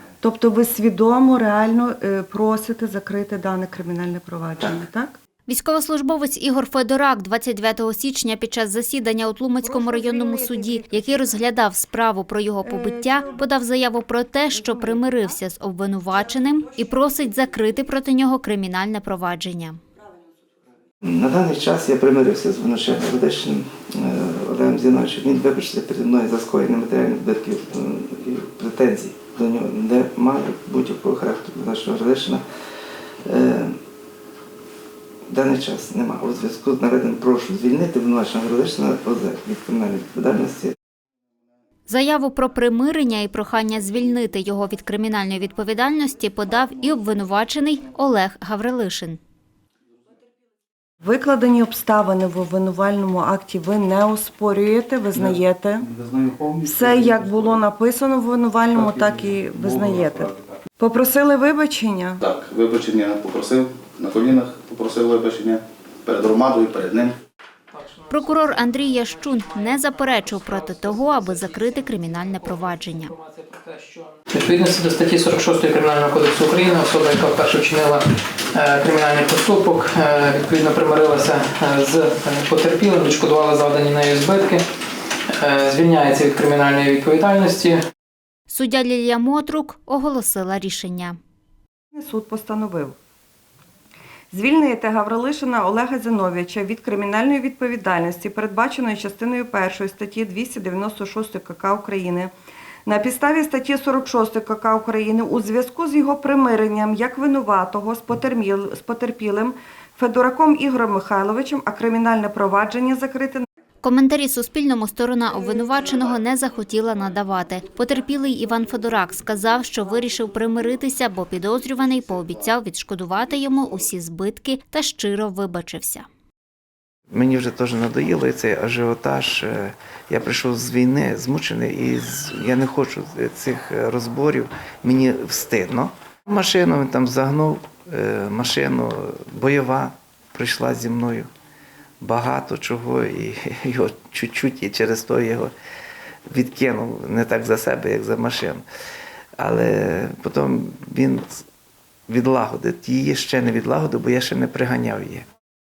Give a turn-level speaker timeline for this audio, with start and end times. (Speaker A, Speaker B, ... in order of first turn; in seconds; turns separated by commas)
Speaker A: 0.2-5.2, Speaker B: 5.5-19.8, Speaker A: 9.6-11.2, Speaker A: 12.7-13.1, Speaker C: 21.0-32.4, Speaker C: 33.3-33.8, Speaker C: 35.3-40.8, Speaker B: 41.9-49.2, Speaker A: 51.0-55.9, Speaker A: 56.6-62.2, Speaker D: 62.2-67.2, Speaker E: 67.7-84.7, Speaker B: 68.1-73.1, Speaker E: 85.3-87.8, Speaker B: 88.5-91.2, Speaker A: 91.9-93.0, Speaker A: 94.3-102.3, Speaker A: 102.9-113.4, Speaker B: 113.8-126.0, Speaker C: 127.1-141.3, Speaker C: 142.0-145.5, Speaker C: 146.3-148.6, Speaker C: 149.4-151.4, Speaker C: 152.1-155.2